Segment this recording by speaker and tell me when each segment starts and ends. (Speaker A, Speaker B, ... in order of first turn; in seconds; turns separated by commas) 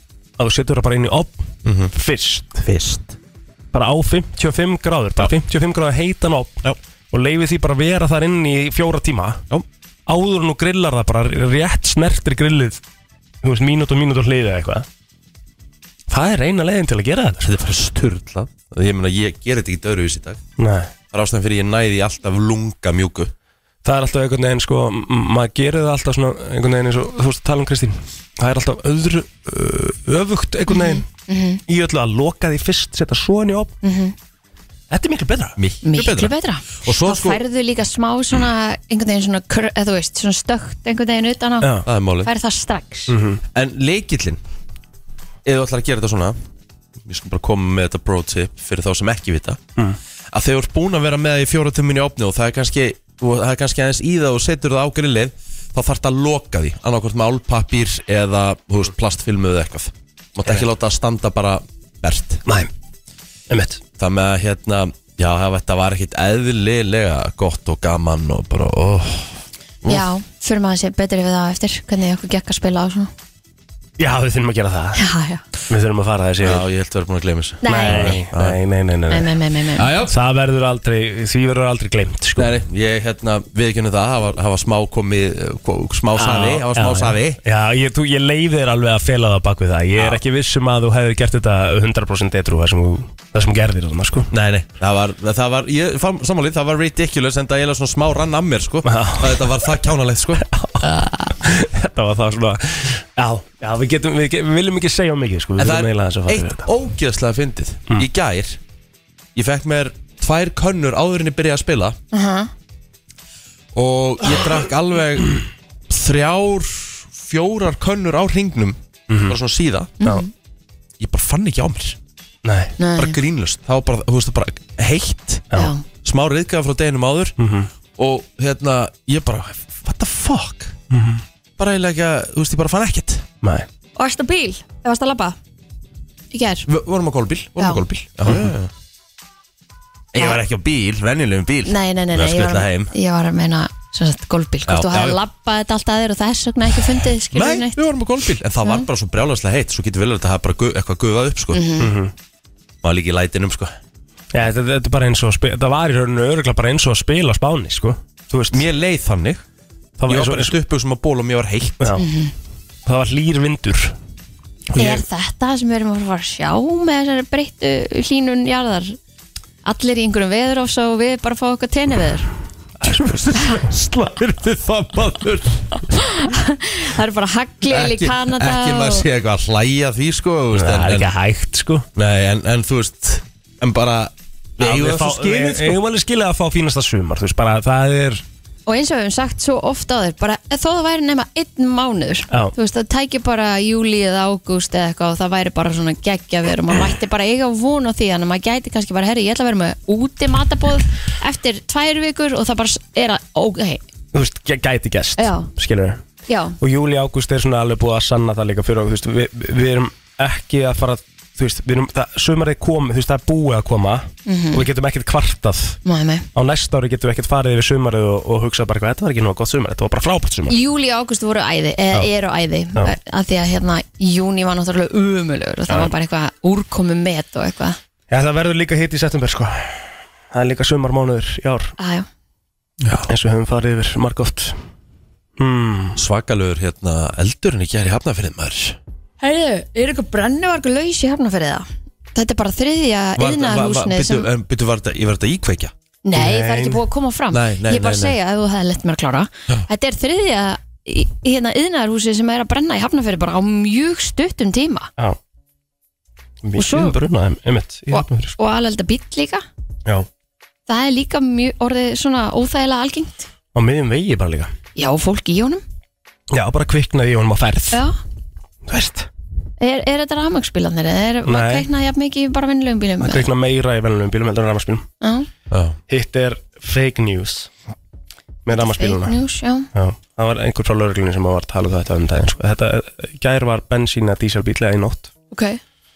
Speaker A: 0.4-2.6, Speaker B: 1.6-1.9, Speaker B: 2.6-3.2, Speaker A: 3.7-9.4, Speaker A: 10.1-12.8, Speaker A: 13.4-14.9, Speaker A: 16.1-17.5, Speaker B: 17.4-20.4, Speaker A: 20.6-20.9, Speaker B: 21.1-23.3, Speaker A: 23.8-31.1, Speaker C: 30.7-31.6, Speaker A: 31.7-33.7, Speaker C: 33.8-34.1, Speaker A: 34.9-35.6, Speaker B: 35.6-37.4, Speaker C: 35.8-43.1, Speaker B: 41.9-42.3, Speaker A: 43.1-43.4, Speaker B: 43.5-44.4, Speaker B: 45.5-46.4, Speaker B: 47.0-49.6, Speaker B: 50.3-62.4, Speaker A: 63.5-63.8, Speaker B: 64.0-70.0, Speaker C: 69.9-73.1, Speaker A: 74.0-75.0, Speaker C: 75.0-75.4, Speaker A: 75.7-76.6, Speaker B: 76.4-78.6, Speaker C: 77.6-78.2, Speaker A: 77.7-79.3, Speaker C: 79.1-79.9, Speaker B: 79.8-80.2, Speaker A: 80.1-82.5, Speaker B: 82.4-87.4, Speaker A: 86.2-94.3, Speaker B: 90.0-90.2, Speaker B: 94.3-100.5, Speaker A: 98.8-99.5, Speaker A: 100.4-106.7, Speaker B: 105.6-108.6, Speaker B: 109.3-112.0, Speaker C: 112.1-112.5, Speaker B: 113.7-120.0, Speaker A: 119.1-119.4, Speaker C: 120.0-120.3, Speaker B: 121.0-122.0, Speaker A: 122.5-122.8, Speaker C: 122.8-123.2, Speaker B: 123.0-125.5, Speaker C: 125.5-125.8, Speaker B: 126.0-127.3, Speaker A: 127.4-127.7, Speaker B: 128.0-130.8, Speaker A: 130.9-131.2, Speaker B: 131.6-133.2, Speaker A: 133.4-133.7, Speaker C: 134.0-135.4, Speaker C: 136.3-136.7, Speaker B: 136.7-138.7, Speaker C: 137.6-137.8, Speaker B: 140.1-142.9, Speaker C: 140.2-140.4, Speaker C: 141.7-147.8, Speaker B: 144.7-145.2, Speaker B: 147.3-151.7, Speaker C: 151.5-151.9, Speaker A: 151.8-152.1, Speaker B: 152.8-153.8, Speaker A: 154.3-158.7, Speaker B: 158.5-159.4, Speaker A: 160.0-160.6, Speaker B: 160.1-162.0, Speaker C: 162.0-162.3, Speaker A: 162.9-163.9, Speaker B: 164.7-165.1, Speaker C: 164.8-169.0, Speaker C: 169.7-172.3, Speaker A: 172.8-173.5, Speaker B: 172.8-175.7, Speaker C: 175.9-179.1, Speaker B: 177.7-181.1, Speaker A: 180.5-181.9, Speaker B: 181.9-185.8, Speaker A: 184.6-188.2, Speaker C: 188.7-203.8, Speaker A: 204.1-206.0, Speaker C: 205.2-205.5, Speaker C: 206.3-206.6, Speaker A: 206.6-215.8, Speaker C: 214.3-214.7, Speaker C: 215.8-216.3, Speaker A: 216.3-220.6, Speaker C: 220.5-227.8, Speaker A: 228.1-231.7, Speaker C: 231.8-232.1, Speaker B: 232.8-233.1, Speaker A: 233.1-234.6, Speaker A: 235.4-236.0, Speaker B: 236.0-238.8, Speaker C: 239.2-244.3, Speaker B: 243.2-245.7, Speaker C: 246.1-254.9, Speaker A: 246.1-246.8, Speaker B: 247.3-248.2, Speaker A: 256.4-258.4, Speaker C: 256.6-257.0, Speaker C: 257.9-259.4, Speaker C: 260.7-263.3, Speaker A: 263.6-264.5, Speaker C: 264.8-265.6, Speaker A: 266.3-267.8, Speaker C: 267.7-268.0, Speaker A: 268.7-269.1, Speaker C: 269.6-273.3, Speaker A: 271.3-271.7, Speaker A: 273.0-274.9, Speaker C: 275.0-275.3, Speaker B: 275.5-275.8, Speaker A: 275.9-277.5, Speaker A: 278.5-279.1, Speaker C: 278.5-279.7, Speaker A: 279.7-285.1, Speaker C: 285.3-285.6